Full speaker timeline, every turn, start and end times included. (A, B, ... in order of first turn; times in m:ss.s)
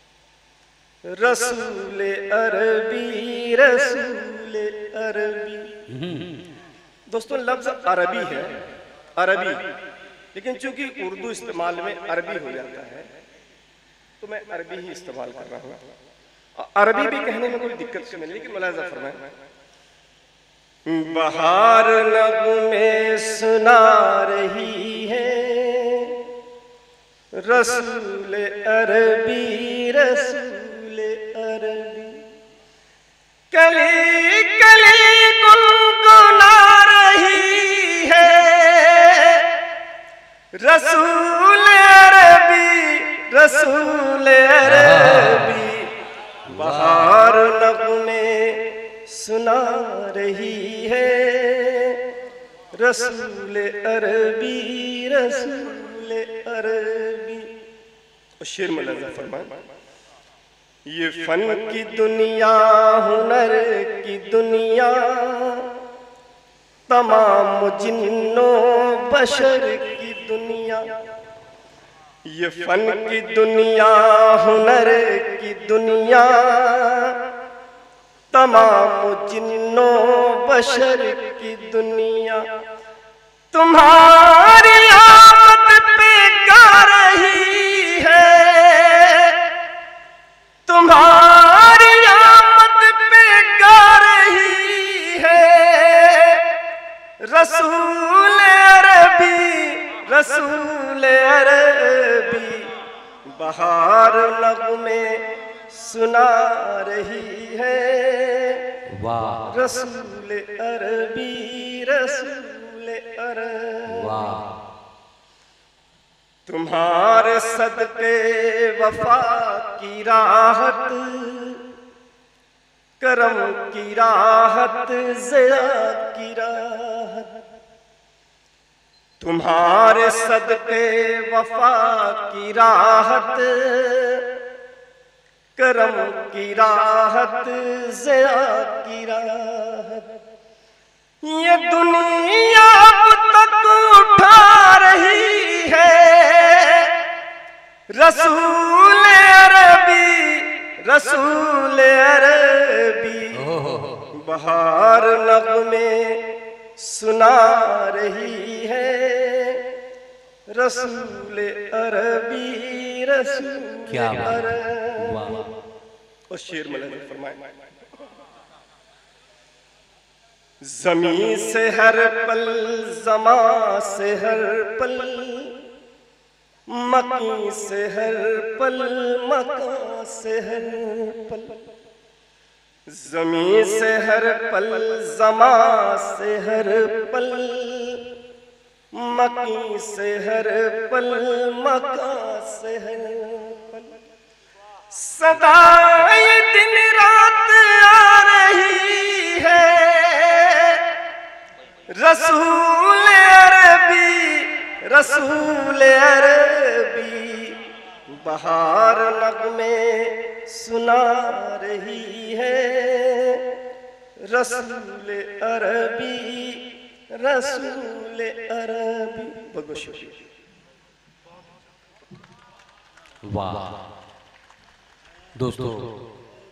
0:01.1-0:05.7 A
0:05.9-0:06.4 B
0:07.1-0:08.6 A
0:09.2-0:09.6 A
0:10.3-0:13.1 A
0:14.2-0:15.8 A
0:16.6-0:19.3 A
0:20.9-0:26.2 A
0:27.4-0:32.2 A
0:33.5-0:39.5 A
0:40.6-0:45.9 A
0:46.5-0:52.0 A
0:52.8-0:57.5 A
0:58.4-0:59.5 A
1:00.9-1:05.8 A
1:06.9-1:10.8 A
1:12.3-1:17.2 A
1:18.3-1:22.5 A
1:23.5-1:29.4 A
1:30.7-1:36.5 A
1:37.2-1:42.7 A
1:43.3-1:48.7 A
1:49.0-1:49.6 B
1:49.5-1:54.3 A
1:54.0-1:54.6 B
1:56.5-2:01.7 A
2:03.0-2:07.4 A
2:09.2-2:14.4 A
2:15.6-2:20.2 A
2:21.2-2:27.0 A
2:28.0-2:33.5 A
2:33.5-2:34.0 B
2:34.2-2:39.8 A
2:40.5-2:45.4 A
2:43.9-2:45.5 B
2:46.3-2:47.5 A
2:50.6-2:55.6 A
2:56.7-3:01.6 A
3:02.9-3:08.1 A
3:08.9-3:13.9 A
3:14.9-3:20.9 A
3:21.9-3:33.6 A
3:34.3-3:40.2 A
3:43.2-3:43.8 B
3:45.4-3:46.0 B